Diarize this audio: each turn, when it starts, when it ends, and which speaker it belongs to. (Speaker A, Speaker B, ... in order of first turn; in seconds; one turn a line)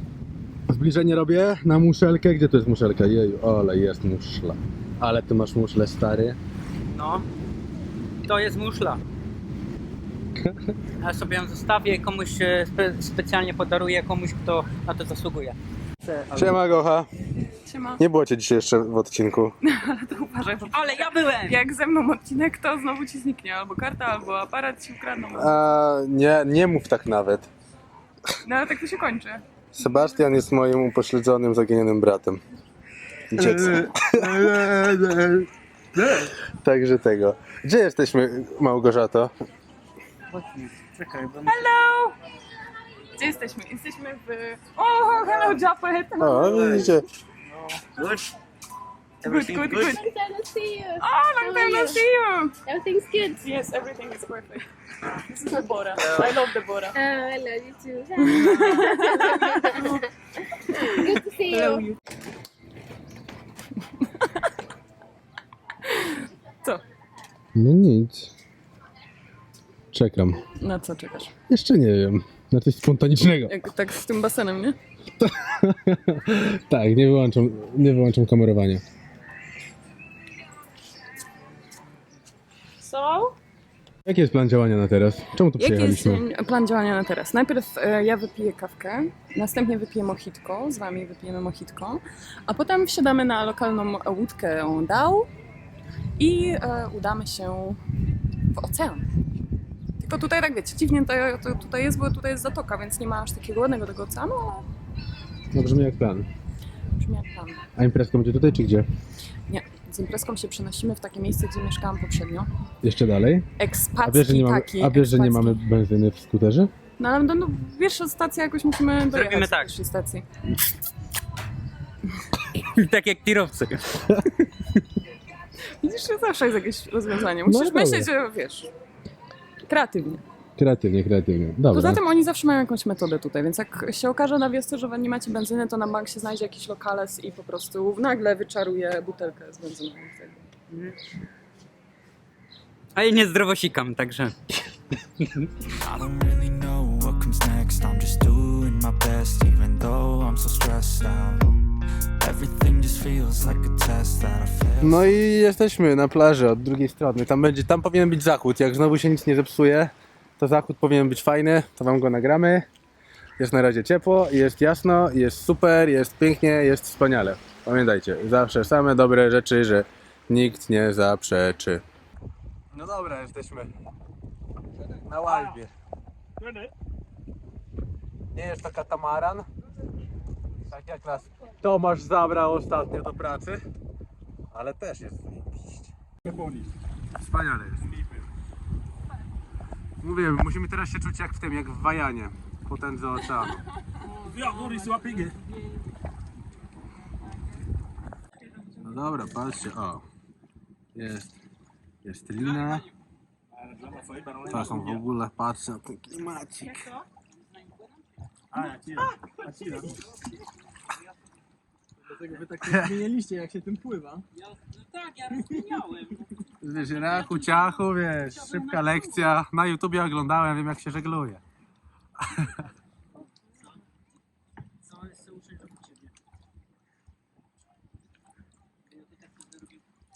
Speaker A: 0.7-6.4
Speaker B: 6.9-7.3
Speaker B: 8.2-9.0
Speaker B: 11.0-16.6
Speaker A: 16.4-17.1
Speaker C: 17.6-18.0
Speaker A: 18.0-19.6
Speaker C: 19.6-25.6
Speaker B: 20.7-21.6
Speaker A: 25.3-27.5
Speaker C: 28.4-29.4
Speaker A: 29.7-32.4
Speaker A: 33.3-34.8
Speaker D: 34.5-35.4
Speaker A: 36.1-39.3
Speaker B: 40.3-41.7
Speaker C: 41.5-42.1
Speaker C: 43.1-46.9
Speaker A: 46.2-47.1
Speaker B: 48.0-48.2
Speaker B: 49.2-50.0
Speaker C: 49.2-50.1
Speaker E: 49.8-52.1
Speaker C: 51.0-52.6
Speaker E: 52.6-53.4
Speaker C: 53.3-54.6
Speaker C: 55.2-57.0
Speaker E: 56.9-59.9
Speaker C: 58.2-59.9
Speaker E: 60.8-61.9
Speaker C: 65.9-66.8
Speaker A: 67.5-68.3
Speaker A: 69.9-70.4
Speaker C: 70.6-71.3
Speaker A: 71.5-73.5
Speaker C: 73.5-74.8
Speaker A: 75.2-78.8
Speaker C: 82.8-83.3
Speaker A: 84.1-86.2
Speaker C: 85.6-95.3
Speaker C: 96.2-97.8
Speaker C: 98.5-99.0
Speaker C: 100.0-104.6
Speaker A: 105.5-106.3
Speaker C: 107.0-107.6
Speaker A: 107.8-108.9
Speaker C: 109.5-112.5
Speaker A: 112.8-113.5
Speaker C: 113.6-115.6
Speaker A: 114.0-116.7
Speaker C: 117.0-120.2
Speaker B: 119.1-119.7
Speaker B: 122.5-124.0
Speaker A: 124.1-124.4
Speaker C: 125.8-128.7
Speaker A: 127.5-128.1
Speaker C: 129.7-130.2
Speaker A: 130.6-132.0
Speaker C: 131.7-140.4
Speaker B: 140.7-141.0
Speaker B: 142.9-144.4
Speaker B: 145.2-145.5
Speaker F: 145.8-151.6
Speaker F: 152.2-155.1
Speaker A: 154.8-162.7
Speaker A: 163.4-171.8
Speaker A: 172.7-173.7
Speaker A: 175.0-175.7
Speaker D: 176.4-176.7
Speaker A: 178.3-179.5
Speaker A: 180.7-183.6
Speaker A: 184.5-185.9
Speaker D: 186.2-186.7
Speaker A: 187.2-187.9
Speaker A: 190.0-193.6
Speaker D: 194.2-195.4
Speaker A: 198.7-200.1
Speaker A: 200.9-201.3
Speaker A: 202.0-202.9
Speaker D: 203.7-205.0
Speaker A: 204.4-206.8
Speaker B: 207.6-207.9
Speaker D: 208.5-210.0
Speaker D: 212.1-214.2
Speaker A: 212.6-213.1
Speaker B: 214.3-219.2
Speaker A: 216.6-221.4
Speaker A: 222.2-222.6
Speaker B: 224.8-226.1
Speaker B: 228.9-229.8